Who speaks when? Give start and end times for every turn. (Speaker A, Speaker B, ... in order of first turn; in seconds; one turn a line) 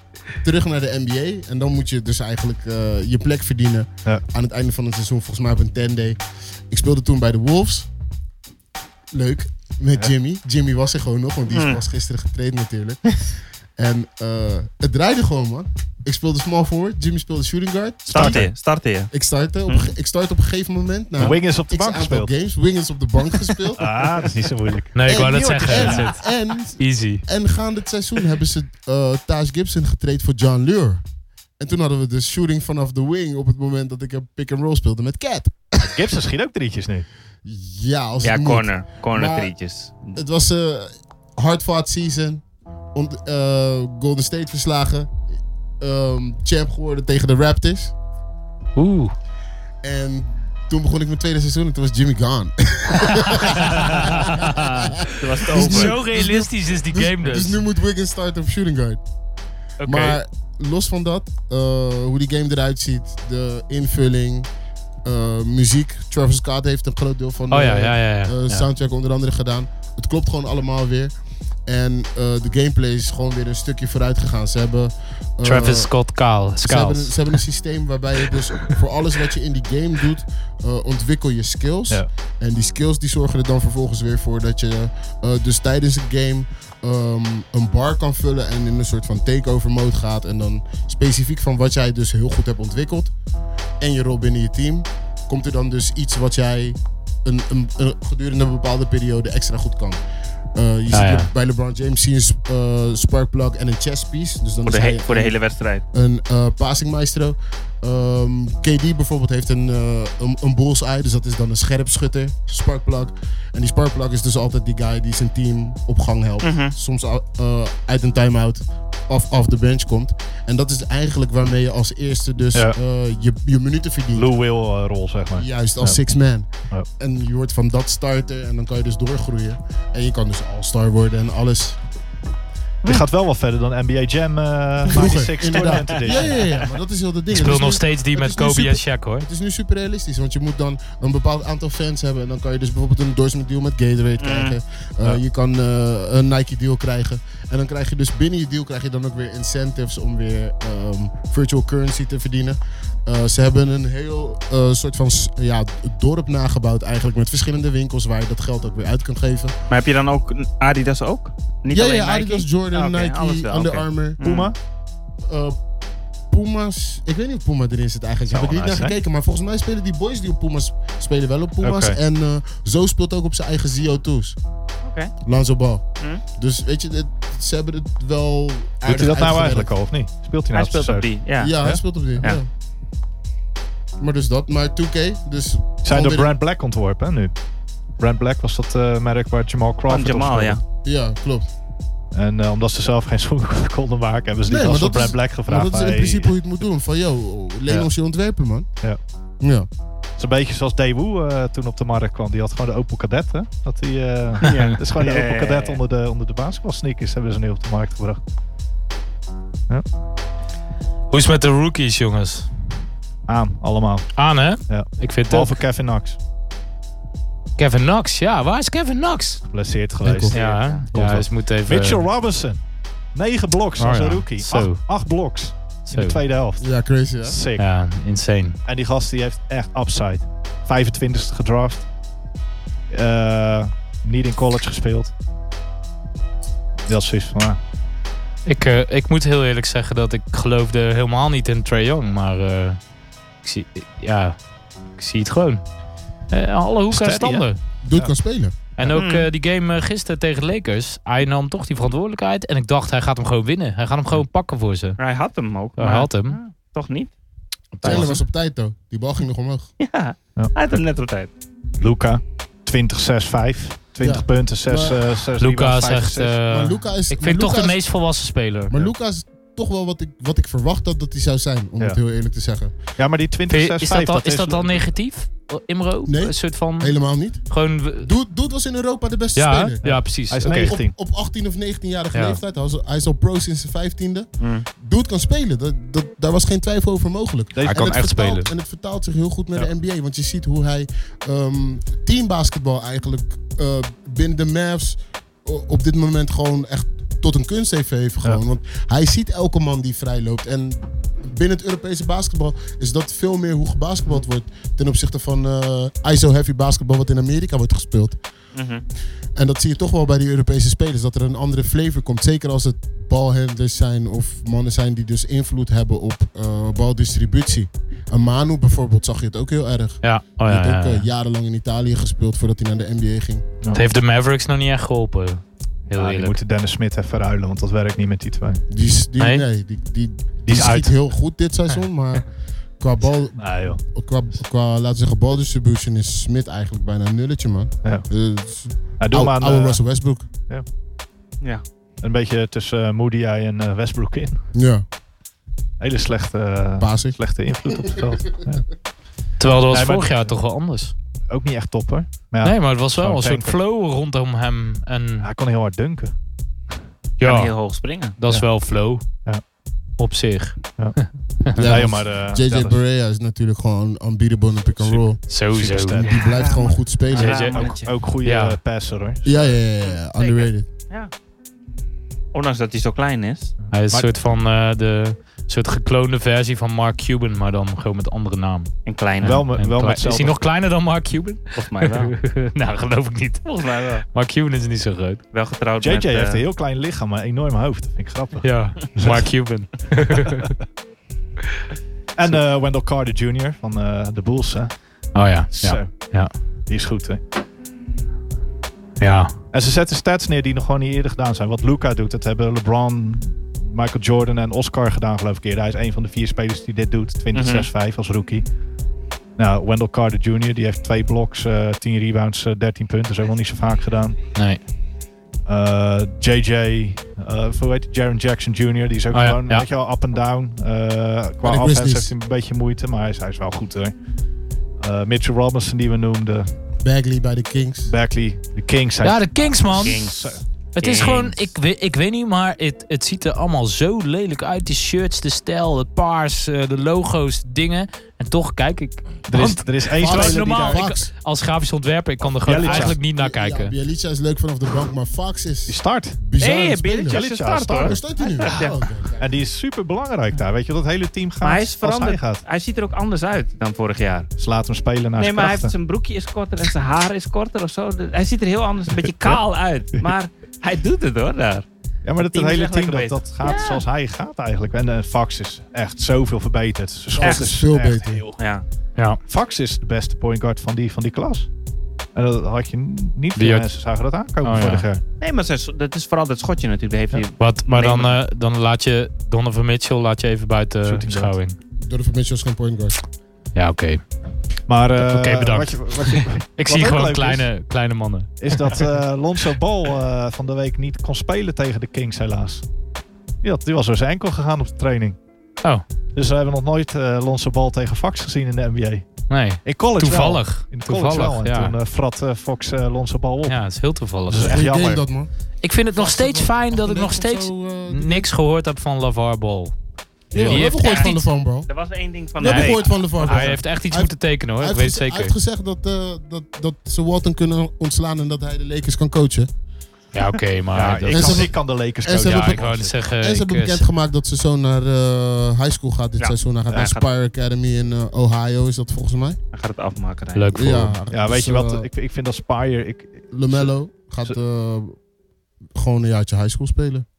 Speaker A: 0.3-7.9
Speaker A: 9.1-13.1
Speaker B: 11.5-11.8
Speaker A: 13.8-18.5
Speaker B: 18.1-19.1
Speaker C: 18.1-18.5
Speaker A: 19.1-23.9
Speaker B: 19.7-19.9
Speaker C: 21.2-22.3
Speaker C: 23.7-26.1
Speaker D: 24.9-27.2
Speaker A: 25.1-31.0
Speaker A: 31.6-36.0
Speaker C: 35.8-37.1
Speaker A: 37.4-39.5
Speaker B: 38.2-40.1
Speaker A: 40.1-45.1
Speaker A: 45.8-47.9
Speaker D: 48.8-49.1
Speaker A: 49.8-59.0
Speaker D: 53.5-54.6
Speaker B: 53.9-56.0
Speaker D: 55.5-57.6
Speaker D: 59.8-60.2
Speaker A: 59.8-64.5
Speaker A: 65.0-71.1
Speaker D: 67.5-68.7
Speaker A: 71.7-75.9
Speaker D: 75.4-77.3
Speaker A: 76.6-93.1
Speaker A: 93.8-100.0
Speaker A: 100.5-105.3
Speaker D: 100.9-101.3
Speaker B: 104.6-105.8
Speaker A: 105.9-124.3
Speaker B: 116.4-116.7
Speaker C: 124.1-126.0
Speaker A: 125.3-131.8
Speaker C: 132.8-136.4
Speaker A: 134.9-159.5
Speaker B: 135.5-136.6
Speaker D: 137.3-139.3
Speaker B: 144.2-144.6
Speaker B: 159.7-164.5
Speaker A: 161.7-164.2
Speaker C: 164.2-164.5
Speaker A: 165.3-165.6
Speaker A: 166.3-174.4
Speaker C: 168.3-169.0
Speaker C: 171.6-172.0
Speaker B: 174.8-175.1
Speaker A: 175.2-179.7
Speaker C: 178.8-182.3
Speaker B: 180.5-181.5
Speaker A: 181.4-182.5
Speaker A: 184.0-186.3
Speaker C: 185.8-187.3
Speaker C: 188.0-190.6
Speaker B: 189.9-190.6
Speaker A: 190.8-191.5
Speaker C: 192.1-196.3
Speaker A: 194.5-198.7
Speaker A: 199.4-199.7
Speaker C: 200.2-208.2
Speaker B: 204.4-205.8
Speaker D: 211.1-212.5
Speaker C: 213.3-214.1
Speaker D: 214.2-215.6
Speaker C: 214.7-216.2
Speaker D: 217.6-219.4
Speaker C: 219.5-222.6
Speaker A: 220.0-220.3
Speaker D: 220.3-222.1
Speaker B: 220.3-220.8
Speaker C: 223.1-226.7
Speaker D: 223.8-224.8
Speaker D: 225.9-226.2
Speaker A: 226.6-227.4
Speaker C: 227.2-227.7
Speaker D: 227.6-228.6
Speaker C: 228.7-231.8
Speaker C: 232.9-235.1
Speaker C: 236.9-237.6
Speaker D: 238.4-242.8
Speaker D: 243.4-244.4
Speaker D: 245.0-245.6
Speaker D: 246.3-247.6
Speaker C: 246.9-248.1
Speaker A: 247.8-248.5
Speaker D: 248.8-255.0
Speaker B: 248.9-249.3
Speaker B: 255.0-257.1
Speaker D: 255.8-256.4
Speaker D: 257.7-258.2
Speaker B: 257.8-258.1
Speaker A: 257.8-259.7
Speaker B: 259.8-261.3
Speaker C: 261.8-266.4
Speaker A: 264.0-265.0
Speaker D: 265.4-268.8
Speaker A: 266.5-267.8
Speaker A: 268.7-272.7
Speaker C: 273.0-274.9
Speaker D: 273.5-278.1
Speaker A: 276.1-279.8
Speaker D: 279.3-280.8
Speaker C: 279.8-280.9
Speaker A: 280.4-308.2
Speaker D: 282.1-282.4
Speaker B: 284.4-284.6
Speaker C: 287.5-288.1
Speaker D: 287.6-288.5
Speaker B: 308.5-308.8
Speaker A: 309.4-323.4
Speaker D: 320.0-321.1
Speaker D: 323.7-326.4
Speaker C: 325.9-328.6
Speaker A: 328.7-340.3
Speaker D: 329.2-329.4
Speaker C: 330.4-330.9
Speaker C: 333.4-333.8
Speaker C: 339.0-339.8
Speaker C: 342.0-344.4
Speaker A: 344.5-344.8
Speaker C: 345.8-348.6
Speaker A: 346.8-347.2
Speaker D: 349.4-350.9
Speaker C: 349.7-350.3
Speaker C: 351.3-353.6
Speaker D: 352.4-355.3
Speaker C: 355.2-356.1
Speaker D: 357.2-357.5
Speaker B: 357.2-358.1
Speaker D: 358.2-359.0
Speaker D: 360.0-361.6
Speaker C: 361.5-362.8
Speaker A: 361.6-365.2
Speaker C: 364.8-366.2
Speaker D: 365.3-366.0
Speaker A: 366.0-367.4
Speaker B: 366.0-367.9
Speaker D: 367.1-367.6
Speaker C: 367.2-369.6
Speaker D: 368.2-368.6
Speaker A: 369.2-370.7
Speaker B: 369.9-371.1
Speaker B: 372.3-373.5
Speaker C: 373.6-374.1
Speaker D: 373.7-378.7
Speaker B: 378.9-379.5
Speaker C: 379.2-380.4
Speaker D: 379.3-385.2
Speaker B: 381.6-382.1
Speaker B: 383.4-384.0
Speaker B: 385.3-386.4
Speaker C: 385.8-389.3
Speaker D: 388.4-390.5
Speaker C: 392.1-394.7
Speaker D: 395.1-396.3
Speaker C: 395.5-397.2
Speaker D: 399.0-399.3
Speaker C: 399.5-408.4
Speaker B: 407.3-407.7
Speaker C: 409.4-414.2
Speaker D: 414.3-414.6
Speaker C: 415.4-423.9
Speaker D: 419.1-419.6
Speaker A: 421.4-422.1
Speaker C: 424.8-426.5
Speaker A: 426.8-427.9
Speaker C: 427.9-430.4
Speaker D: 429.0-430.0
Speaker B: 429.6-431.4
Speaker D: 430.8-443.7
Speaker C: 439.3-440.9
Speaker A: 439.9-441.1
Speaker C: 442.4-443.0
Speaker A: 442.6-447.2
Speaker C: 445.7-446.2
Speaker B: 446.4-448.7
Speaker C: 447.1-452.4
Speaker A: 447.8-449.2
Speaker B: 451.4-454.3
Speaker C: 454.4-455.7
Speaker B: 455.2-461.6
Speaker C: 458.9-459.4
Speaker C: 462.0-468.4
Speaker B: 462.2-463.8
Speaker A: 467.1-468.2
Speaker B: 467.2-467.5
Speaker B: 468.4-468.6
Speaker C: 469.2-471.5
Speaker C: 472.1-475.0
Speaker D: 473.4-473.7
Speaker D: 474.4-474.9
Speaker B: 475.2-478.2
Speaker D: 477.4-481.6
Speaker C: 480.8-481.3
Speaker A: 481.8-483.0
Speaker D: 483.5-484.0
Speaker C: 484.7-487.5
Speaker D: 484.9-488.8
Speaker C: 488.4-492.6
Speaker C: 493.4-495.2
Speaker C: 496.1-503.6
Speaker D: 499.3-501.7
Speaker D: 503.4-504.6
Speaker C: 504.2-505.0
Speaker A: 504.4-505.3
Speaker D: 505.6-509.7
Speaker A: 505.9-508.3
Speaker A: 510.3-511.7
Speaker B: 510.4-513.5
Speaker D: 510.4-511.2
Speaker A: 512.4-519.5
Speaker D: 512.4-515.3
Speaker D: 520.1-521.5
Speaker C: 520.7-522.9
Speaker A: 521.1-529.4
Speaker D: 522.2-523.9
Speaker B: 526.2-527.1
Speaker B: 529.5-530.5
Speaker D: 530.3-531.0
Speaker A: 530.5-531.9
Speaker C: 531.1-533.7
Speaker A: 533.3-535.0
Speaker A: 535.8-537.0